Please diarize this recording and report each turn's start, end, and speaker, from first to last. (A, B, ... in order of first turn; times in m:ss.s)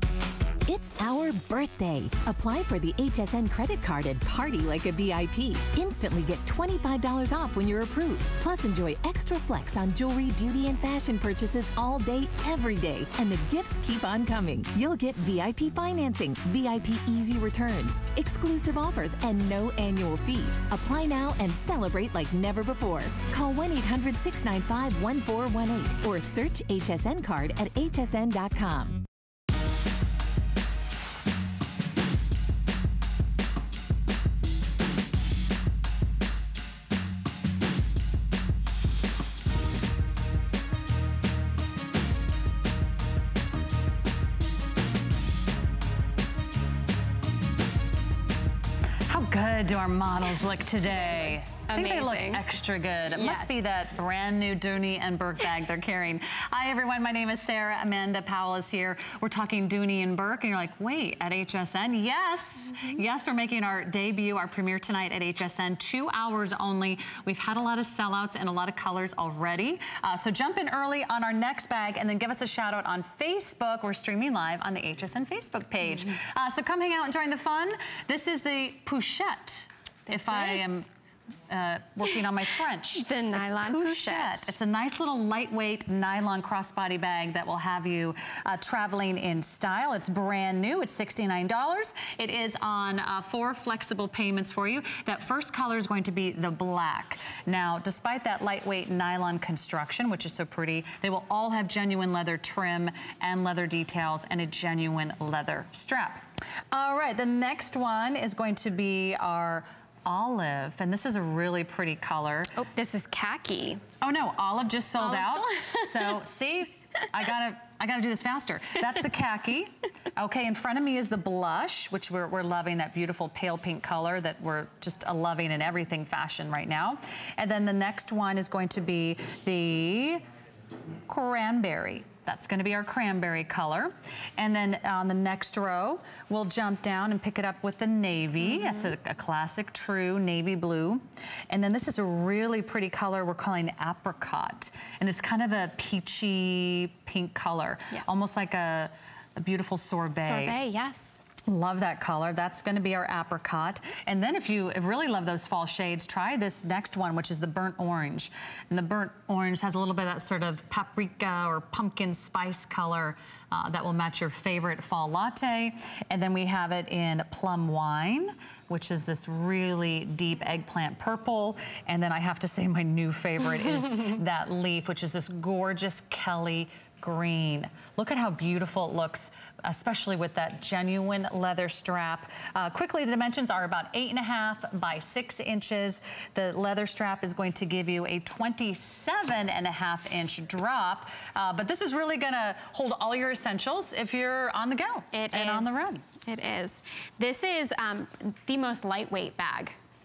0:00.7-0:29.1 A
0:49.1-1:20.9 B
0:51.7-0:52.4 C
0:53.1-0:53.5 C
1:20.1-1:20.8 C
1:21.5-1:52.5 B
1:23.0-1:24.6 C
1:52.6-1:53.8 C
1:54.0-2:10.2 B
1:55.0-1:56.2 C
2:11.1-2:30.6 B
2:18.4-2:18.9 C
2:30.2-2:31.2 C
2:31.5-3:16.0 B
3:15.1-3:19.8 C